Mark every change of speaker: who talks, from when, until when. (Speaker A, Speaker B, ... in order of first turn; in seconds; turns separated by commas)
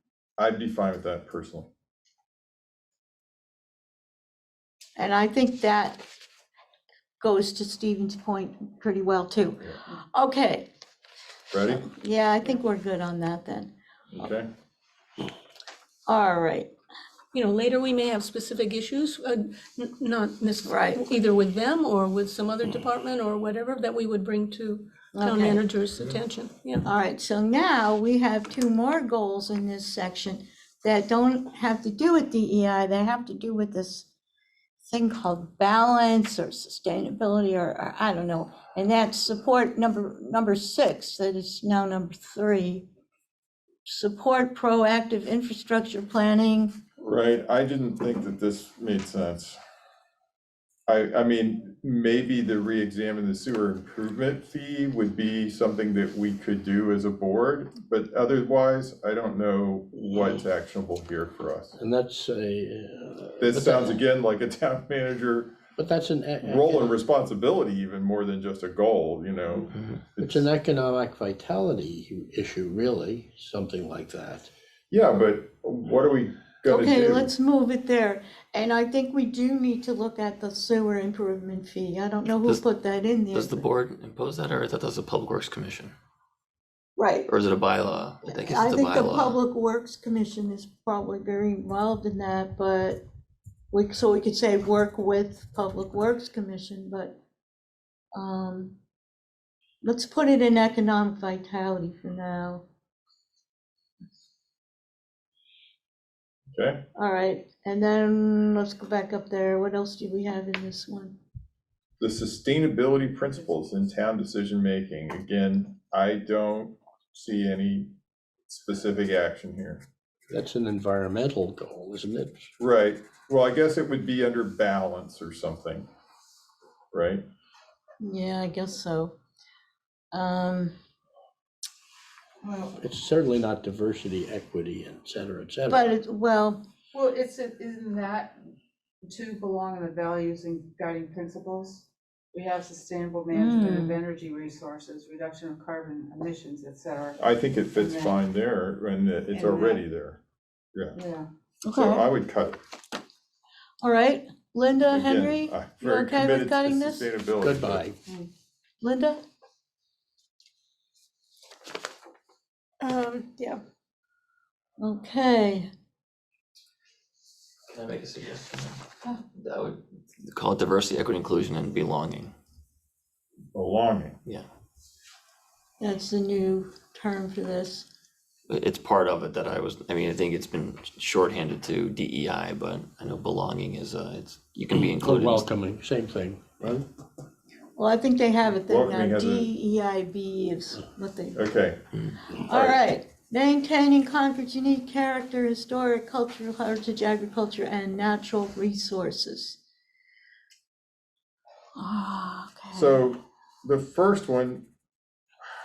Speaker A: 0.4-1.7, Speaker B: 5.0-6.0, Speaker B: 7.2-9.6, Speaker B: 10.1-10.7, Speaker A: 11.5-11.9, Speaker B: 11.7-13.7, Speaker A: 14.1-14.5, Speaker B: 16.1-16.7, Speaker C: 17.3-26.9, Speaker B: 20.7-21.0, Speaker B: 25.1-25.6, Speaker B: 26.8-34.1, Speaker B: 34.8-42.9, Speaker B: 43.9-46.8, Speaker A: 47.0-49.6, Speaker A: 50.9-61.8, Speaker D: 61.8-64.0, Speaker A: 63.4-65.5, Speaker D: 65.8-67.0, Speaker A: 66.4-70.5, Speaker E: 69.7-70.0, Speaker D: 70.2-74.5, Speaker A: 74.9-77.3, Speaker B: 76.7-83.7, Speaker E: 83.3-85.9, Speaker B: 87.0-87.3, Speaker E: 87.3-89.4, Speaker B: 88.3-93.0, Speaker B: 93.7-97.2, Speaker B: 98.1-98.8, Speaker B: 99.8-102.6, Speaker A: 106.5-106.8, Speaker B: 107.0-111.2, Speaker A: 112.0-117.9, Speaker A: 118.5-119.8, Speaker D: 120.3-122.5, Speaker A: 122.6-125.9, Speaker A: 126.9-127.2, Speaker B: 128.0-129.2, Speaker B: 130.1-130.7, Speaker F: 132.4-132.8, Speaker D: 132.8-135.9, Speaker B: 135.7-136.6, Speaker F: 136.9-138.4, Speaker F: 139.0-148.2, Speaker B: 143.3-144.0, Speaker A: 147.2-150.2, Speaker F: 149.3-149.8, Speaker F: 150.9-151.3, Speaker B: 151.7-152.1, Speaker A: 151.7-152.6, Speaker B: 153.8-157.1, Speaker A: 154.9-157.8, Speaker D: 157.4-158.0, Speaker B: 158.8-159.2, Speaker C: 162.8-163.6, Speaker B: 164.8-165.7, Speaker E: 167.7-168.8, Speaker E: 169.4-172.3, Speaker A: 173.5-174.2, Speaker B: 175.8-177.9, Speaker E: 178.5-185.5, Speaker D: 184.7-186.9, Speaker B: 187.8-191.4, Speaker A: 188.7-189.5, Speaker A: 191.3-191.8, Speaker B: 192.4-199.6, Speaker A: 192.5-192.8, Speaker B: 201.8-203.1, Speaker A: 202.7-204.7